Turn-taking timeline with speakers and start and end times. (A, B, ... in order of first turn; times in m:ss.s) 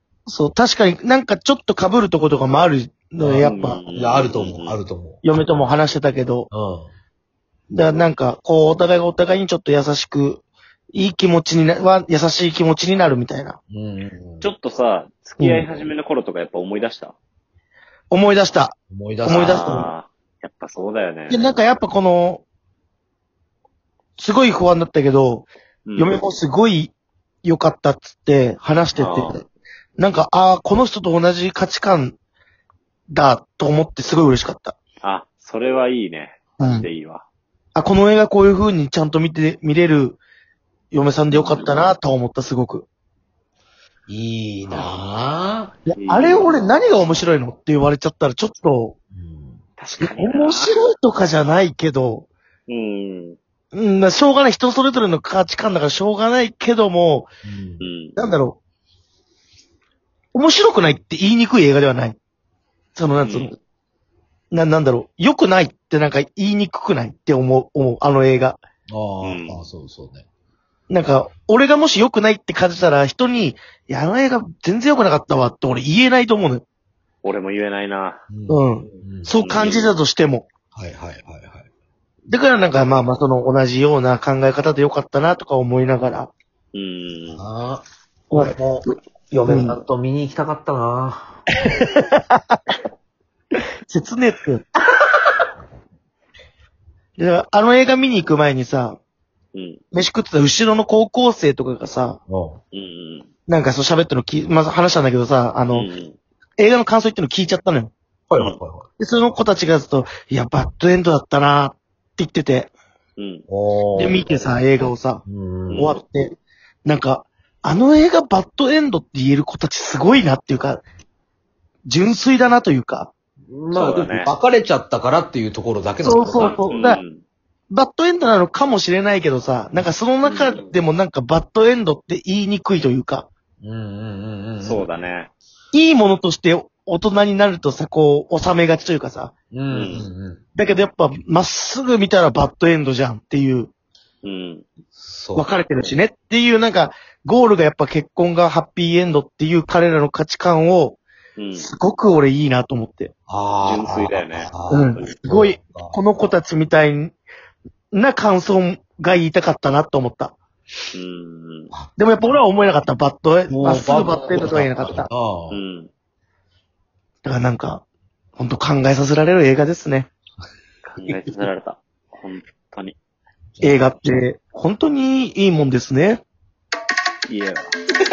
0:00.3-0:03.8 A
0:03.2-0:05.2 B
0:03.4-0:04.8 C
0:05.2-0:06.5 A
0:06.5-0:06.9 B
0:07.7-0:13.6 A
0:13.7-0:14.5 B
0:14.4-0:17.2 C
0:15.4-0:15.7 A
0:18.1-0:19.9 A
0:18.9-0:19.8 B
0:19.2-0:21.4 C
0:21.3-0:22.4 A
0:24.2-0:29.4 A
0:25.8-0:26.2 C
0:29.0-0:29.4 C
0:30.0-0:32.2 A
0:33.1-0:34.8 A
0:35.0-0:37.2 C
0:36.6-0:36.9 A
0:37.7-0:40.2 A
0:40.9-0:42.9 A
0:41.3-0:41.8 C
0:44.1-0:45.7 B
0:44.6-0:45.0 C
0:45.8-0:49.0 A
0:45.9-0:47.2 C
0:49.1-0:49.6 B
0:49.8-0:50.7 C
0:50.0-0:52.3 A
0:52.7-0:53.4 C
0:53.7-0:57.3 A
0:57.4-0:57.8 B
0:57.8-0:58.2 C
0:58.2-0:58.6 A
1:00.3-1:02.2 A
1:02.9-1:03.6 A
1:03.2-1:03.5 C
1:04.5-1:08.6 A
1:08.9-1:10.2 B
1:09.2-1:09.7 C
1:10.9-1:16.6 A
1:17.2-1:18.2 C
1:18.3-1:19.3 B
1:18.5-1:20.4 A
1:19.4-1:19.9 C
1:20.7-1:21.7 B
1:22.3-1:26.3 A
1:26.7-1:27.4 C
1:27.3-1:27.8 B
1:28.3-1:28.9 A
1:28.4-1:31.4 B
1:29.4-1:29.8 A
1:31.7-1:32.6 A
1:33.9-1:34.6 A
1:37.2-1:39.0 A
1:39.5-1:39.8 C
1:39.9-1:42.2 A
1:42.3-1:42.6 B
1:42.7-1:43.3 C
1:43.5-1:45.9 A
1:45.7-1:46.2 C
1:46.6-1:47.9 A
1:48.3-1:48.9 B
1:49.0-1:52.7 A
1:53.2-1:53.4 C
1:53.5-1:54.2 B
1:53.9-2:00.8 A
1:55.2-1:55.9 B
1:55.7-1:56.0 C
2:01.8-2:03.1 A
2:03.5-2:06.8 B
2:03.7-2:04.3 C
2:06.0-2:07.0 A
2:06.4-2:07.2 C
2:07.7-2:13.3 A
2:10.2-2:10.7 C
2:13.6-2:14.9 B
2:14.6-2:15.3 C
2:15.7-2:19.3 A
2:19.5-2:20.4 B
2:19.7-2:20.1 C
2:20.6-2:23.7 A
2:24.2-2:24.6 C
2:24.9-2:25.5 B
2:25.3-2:31.0 A
2:31.4-2:31.7 C
2:31.6-2:33.1 A
2:33.3-2:36.0 B
2:33.6-2:35.2 C
2:34.7-2:37.2 A
2:37.9-2:40.4 A
2:40.9-2:41.7 C
2:42.0-2:45.1 A
2:43.5-2:45.6 B
2:45.5-2:45.9 C
2:47.2-2:47.8 A
2:48.4-2:50.1 A
2:50.8-2:52.9 C
2:53.6-2:53.9 B
2:53.6-2:56.2 A
2:57.3-2:57.7 C